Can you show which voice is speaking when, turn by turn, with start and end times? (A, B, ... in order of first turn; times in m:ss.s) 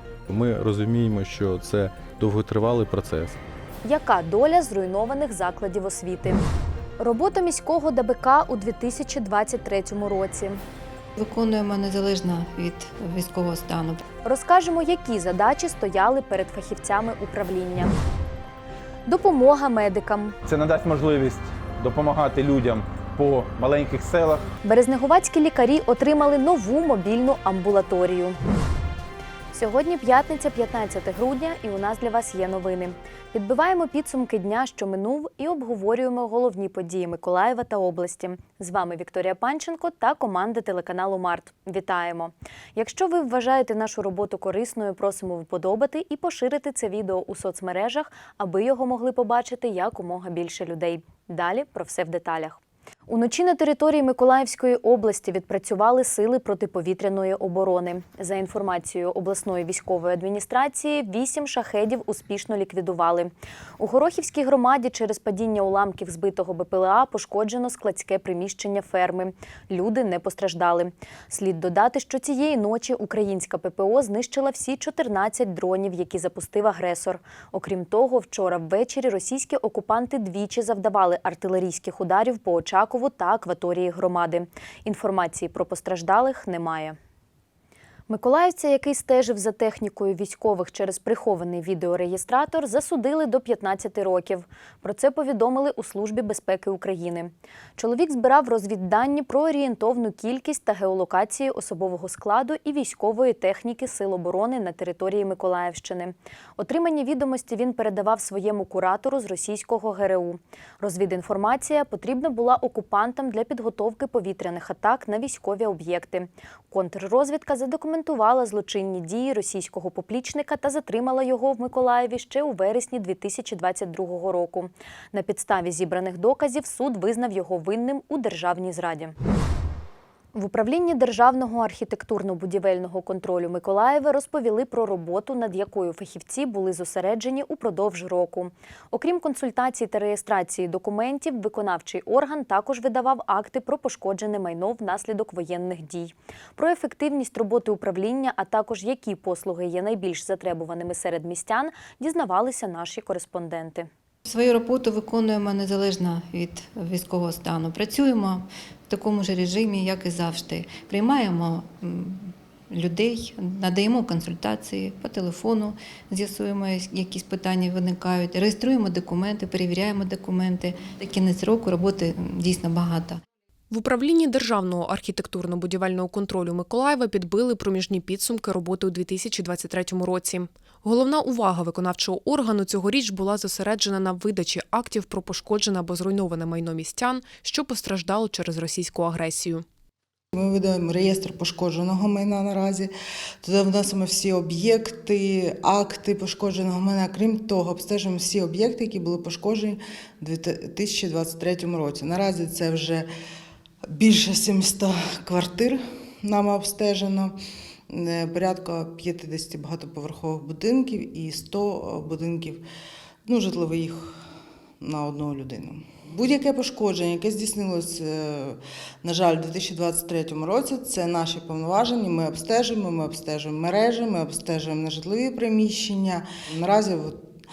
0:00.3-0:03.4 A
0:03.9-0:06.4 B
0:07.0-0:10.6 B
0:11.2-0:14.0 C
0:14.2-0:17.9 B
0:19.1-0:20.4 B
0:20.4-0:24.5 D
0:24.6-0:28.4 B
0:29.5-1:27.0 B
1:28.1-2:09.2 B
2:10.3-2:33.9 B
2:34.3-2:53.2 C
2:53.7-3:09.6 E
3:10.3-3:12.9 F
3:13.4-3:23.1 F
3:23.9-3:27.4 F
3:27.9-3:32.6 F
3:33.2-3:34.1 F
3:34.8-3:47.2 F